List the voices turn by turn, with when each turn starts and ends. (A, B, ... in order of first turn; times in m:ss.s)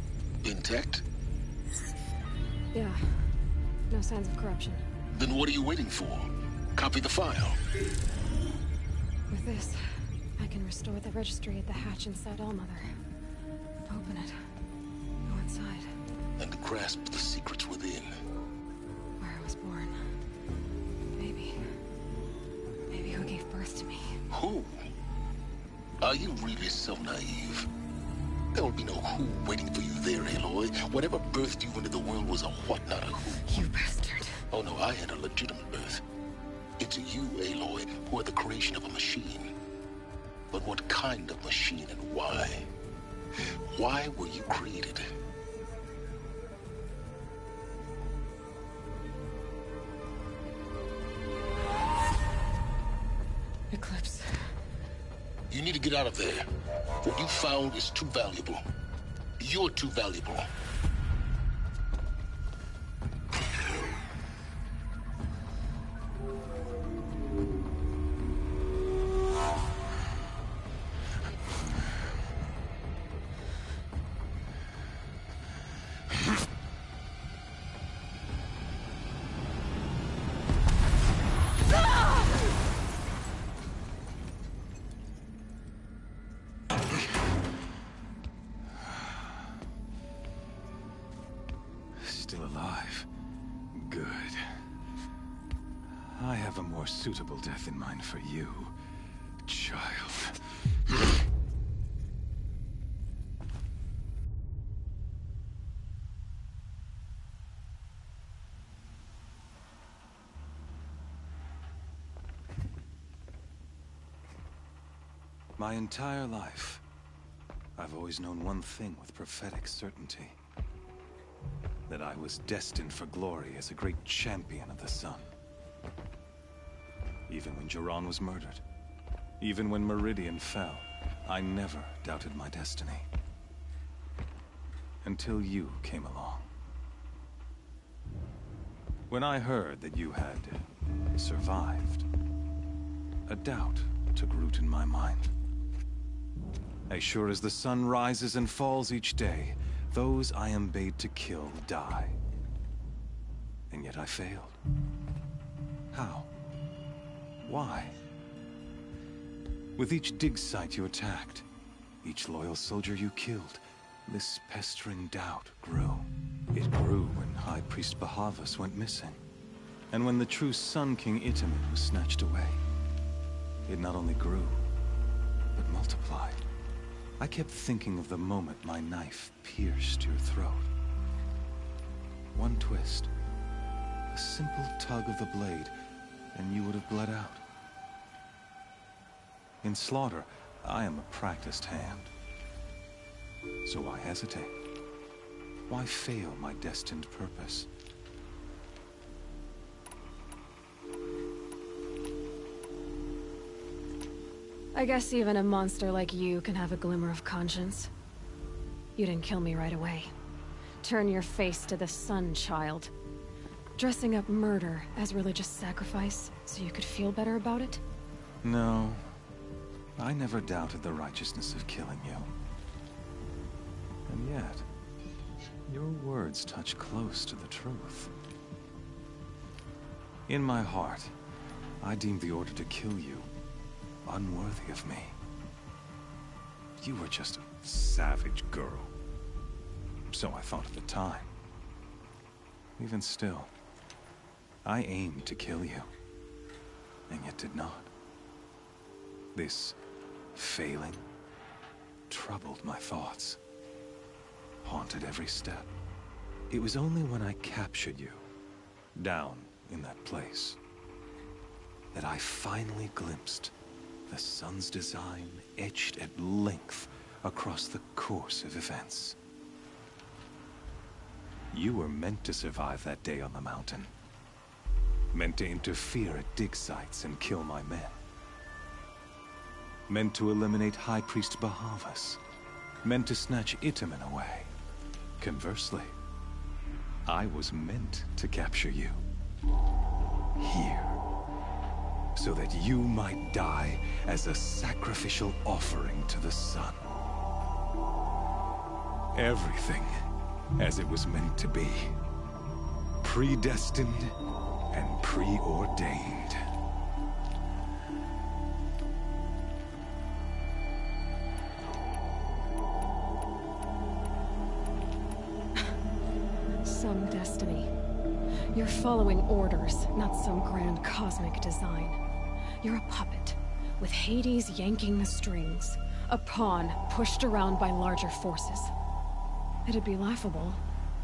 0:00.4-0:01.0 A
0:02.7-0:03.3 B
0:03.9-0:04.8 B
0:05.1-0:07.6 A
0:09.3-0:09.8 B
0:10.4-0:12.9 B
0:13.9-0:14.4 B
0:15.3-0:15.9 B
0:16.4-0:18.1 A
0:19.2-0:20.0 B
0:21.2-0:21.6 B
0:22.9-0:24.2 B
0:24.3-0:24.8 A
0:26.0-0:27.7 A
0:28.5-0:33.5 A
0:33.4-0:34.4 B
0:34.5-0:36.0 A
0:36.8-0:39.5 A
0:40.5-0:42.7 A
0:43.7-0:45.1 A
0:53.7-0:54.5 B
0:55.5-0:56.5 A
0:57.0-0:58.6 A
0:59.4-1:00.5 A
1:32.0-1:33.1 C
1:33.7-1:34.5 C
1:36.0-1:38.8 C
1:39.5-1:40.4 C
1:55.6-1:56.8 C
1:57.8-2:00.4 C
2:01.9-2:05.3 C
2:07.3-2:08.6 C
2:09.4-2:13.1 C
2:15.0-2:16.5 C
2:19.1-2:20.6 C
2:21.2-2:22.0 C
2:23.3-2:25.3 C
2:26.9-2:32.2 C
2:33.7-2:34.6 C
2:35.9-2:36.3 C
2:37.5-2:38.0 C
2:39.8-2:41.5 C
2:42.0-2:49.2 C
2:49.9-2:52.6 C
2:53.7-2:54.6 C
2:55.6-2:56.4 C
2:57.2-3:00.7 C
3:02.4-3:03.1 C
3:04.1-3:05.7 C
3:06.3-3:07.4 C
3:09.6-3:12.1 C
3:13.6-3:14.5 C
3:15.7-3:17.7 C
3:24.7-3:27.9 B
3:29.0-3:30.1 B
3:30.8-3:32.9 B
3:33.8-3:37.8 B
3:38.4-3:39.1 C
3:40.0-3:42.3 C
3:44.1-3:44.6 C
3:45.7-3:48.1 C
3:50.3-3:51.1 C
3:51.8-3:53.3 C
3:54.0-3:55.2 C
3:56.8-3:58.9 C
4:00.1-4:01.3 C
4:02.8-4:03.5 C
4:04.6-4:05.9 C
4:07.1-4:07.9 C
4:09.4-4:09.8 C
4:10.4-4:11.0 C
4:12.1-4:13.4 C
4:14.6-4:15.7 C
4:16.5-4:18.3 C
4:19.0-4:20.6 C
4:21.9-4:23.5 C
4:24.1-4:29.2 C
4:31.5-4:33.9 C
4:35.1-4:38.0 C
4:39.9-4:42.2 C
4:42.8-4:44.5 C
4:45.2-4:45.9 C
4:47.1-4:49.0 C
4:50.4-4:51.0 C
4:52.2-4:56.8 C
4:59.2-5:00.0 C
5:00.6-5:02.0 C
5:03.0-5:04.2 C
5:04.7-5:06.4 C
5:16.6-5:17.7 B
5:18.5-5:22.0 B
5:22.6-5:28.7 B
5:29.7-5:30.6 B